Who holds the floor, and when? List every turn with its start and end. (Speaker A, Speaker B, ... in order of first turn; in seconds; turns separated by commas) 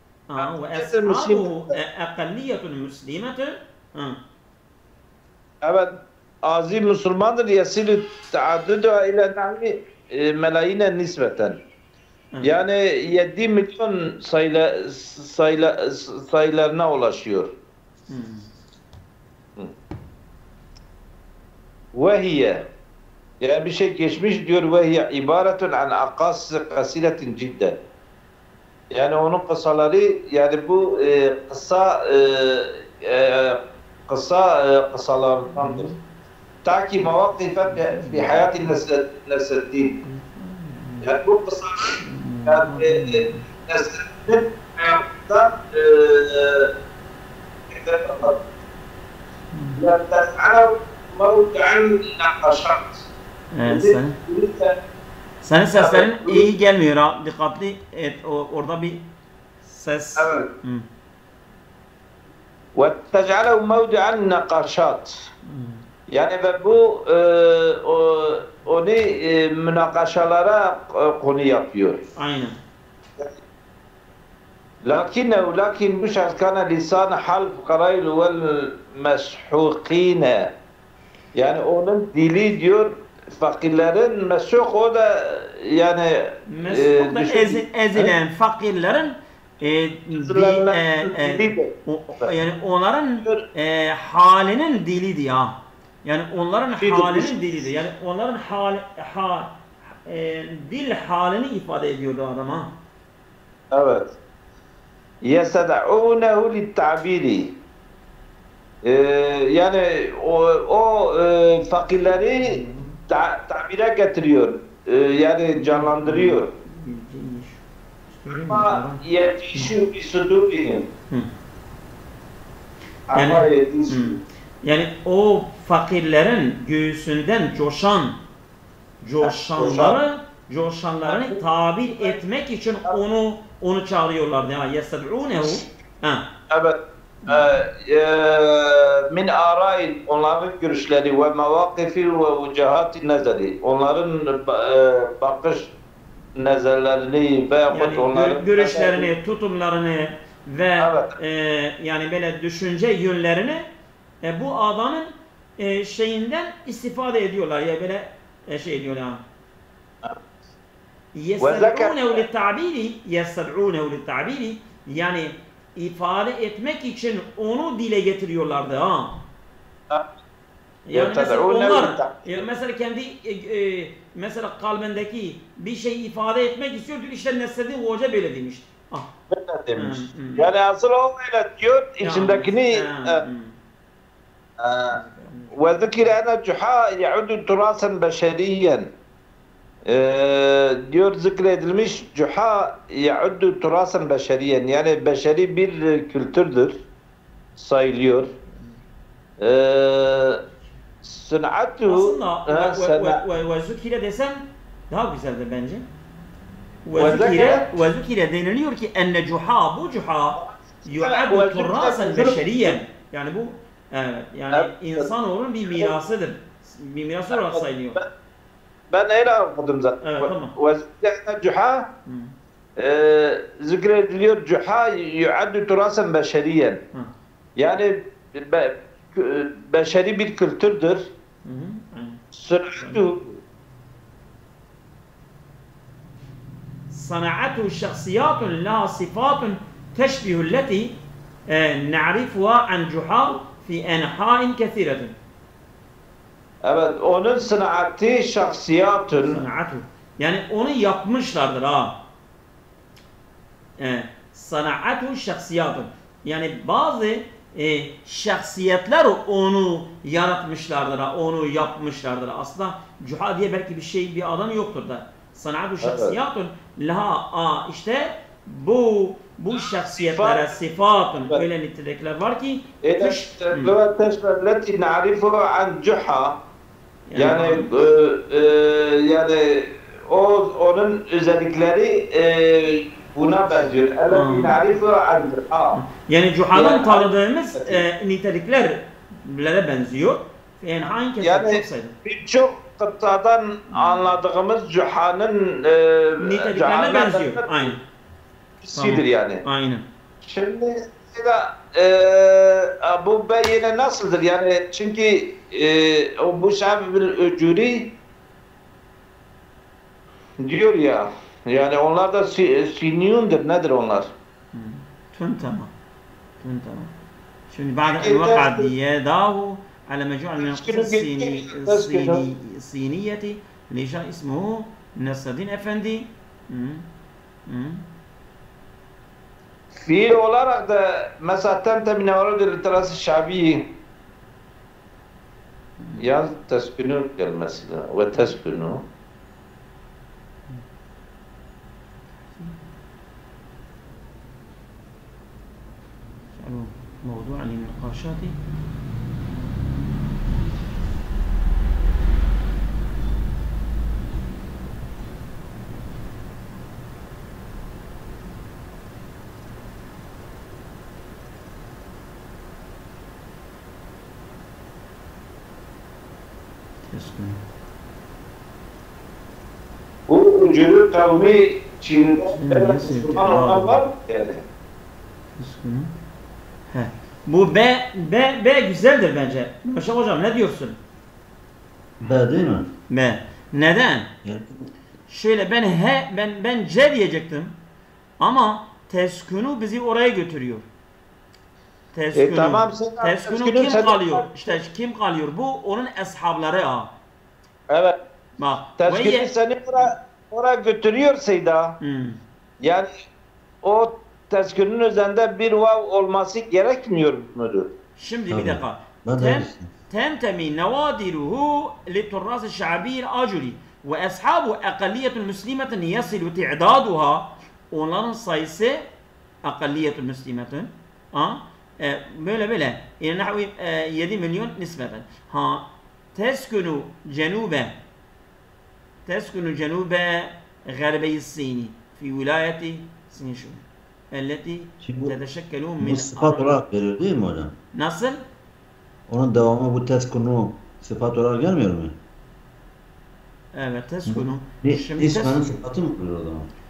Speaker A: 0.3-4.2, Speaker B: 0.4-1.8, Speaker B: 5.6-5.9, Speaker B: 6.4-11.6, Speaker B: 12.4-17.5, Speaker A: 18.1-18.5, Speaker B: 21.9-22.6, Speaker B: 23.4-27.8, Speaker B: 28.9-35.9, Speaker A: 35.5-36.0, Speaker B: 36.6-39.9, Speaker A: 37.7-38.4, Speaker A: 40.0-41.1, Speaker B: 41.0-46.7, Speaker A: 42.0-43.4, Speaker B: 47.7-48.4, Speaker A: 49.5-49.8, Speaker B: 49.8-53.1, Speaker A: 53.5-54.2, Speaker B: 53.7-54.8, Speaker A: 55.4-59.0, Speaker B: 55.8-56.5, Speaker A: 59.7-60.9, Speaker B: 60.2-60.5, Speaker B: 62.8-65.1, Speaker A: 65.5-65.8, Speaker B: 66.1-72.0, Speaker A: 72.2-72.6, Speaker B: 74.8-80.5, Speaker B: 81.4-88.1, Speaker A: 86.5-102.8, Speaker B: 90.2-92.3, Speaker B: 96.8-97.4, Speaker B: 103.7-104.1, Speaker B: 105.2-107.5, Speaker B: 108.8-116.5, Speaker A: 112.4-113.0, Speaker A: 115.6-119.0, Speaker B: 118.3-120.9, Speaker B: 123.1-124.2, Speaker A: 123.1-128.2, Speaker A: 129.0-136.3, Speaker B: 129.2-130.0, Speaker B: 131.1-132.2, Speaker B: 136.5-145.7, Speaker A: 137.3-137.6, Speaker B: 146.4-149.1, Speaker A: 147.7-153.6, Speaker B: 150.8-151.1, Speaker A: 154.2-159.2, Speaker A: 161.1-169.2, Speaker B: 161.4-162.2, Speaker A: 170.9-179.1, Speaker B: 170.9-172.5, Speaker B: 179.3-183.2, Speaker A: 179.8-180.5, Speaker A: 182.0-183.6, Speaker B: 184.6-185.0, Speaker A: 184.9-186.1, Speaker B: 185.5-188.9, Speaker B: 189.9-196.8, Speaker B: 197.6-198.3, Speaker A: 198.5-198.8, Speaker B: 199.4-200.4, Speaker B: 201.0-203.2, Speaker A: 201.9-205.9, Speaker A: 206.8-218.0, Speaker B: 206.9-207.7, Speaker B: 210.4-212.7, Speaker B: 214.5-215.1, Speaker B: 215.7-215.9, Speaker B: 217.3-218.1, Speaker B: 218.9-221.9, Speaker A: 220.0-220.5, Speaker A: 222.1-222.3, Speaker B: 222.8-226.8, Speaker B: 227.6-231.1, Speaker A: 231.4-232.2, Speaker B: 232.3-233.4, Speaker A: 232.8-233.1, Speaker A: 236.9-241.0, Speaker A: 241.5-245.1, Speaker B: 246.6-249.4, Speaker A: 249.3-252.0, Speaker A: 253.8-273.7, Speaker B: 265.8-266.1, Speaker B: 269.7-270.5, Speaker B: 272.8-276.4, Speaker A: 277.1-277.7, Speaker B: 277.1-285.8, Speaker A: 284.1-284.6, Speaker A: 285.8-291.9, Speaker B: 286.5-287.8, Speaker B: 291.2-297.7, Speaker A: 293.7-294.1, Speaker A: 296.2-297.8, Speaker B: 298.6-299.4, Speaker A: 298.7-299.9, Speaker B: 300.2-307.9, Speaker B: 310.4-314.1, Speaker A: 314.5-315.7, Speaker A: 316.4-316.9, Speaker A: 317.5-326.9, Speaker B: 317.9-318.7, Speaker B: 320.4-322.2, Speaker A: 327.5-327.8, Speaker B: 329.8-333.7, Speaker A: 335.8-336.1, Speaker B: 336.0-338.8, Speaker A: 342.3-342.6, Speaker A: 346.4-348.4, Speaker A: 366.9-367.4, Speaker B: 370.1-374.4, Speaker A: 372.4-373.8, Speaker A: 375.4-375.9, Speaker A: 376.7-380.8, Speaker C: 382.0-382.7, Speaker A: 382.9-384.1, Speaker C: 384.2-384.7, Speaker A: 385.1-387.6, Speaker A: 388.2-390.6, Speaker A: 391.9-396.9, Speaker B: 392.1-394.3, Speaker B: 397.7-397.9, Speaker A: 398.4-399.3, Speaker B: 398.8-401.8, Speaker A: 401.8-402.2, Speaker B: 402.6-402.9, Speaker B: 403.6-407.7, Speaker A: 408.0-418.8, Speaker C: 408.3-409.7, Speaker A: 419.4-427.8, Speaker A: 429.1-436.6, Speaker C: 434.8-435.2, Speaker C: 435.8-437.6, Speaker A: 437.8-438.2, Speaker C: 439.1-442.0, Speaker A: 443.6-445.4, Speaker C: 444.1-446.5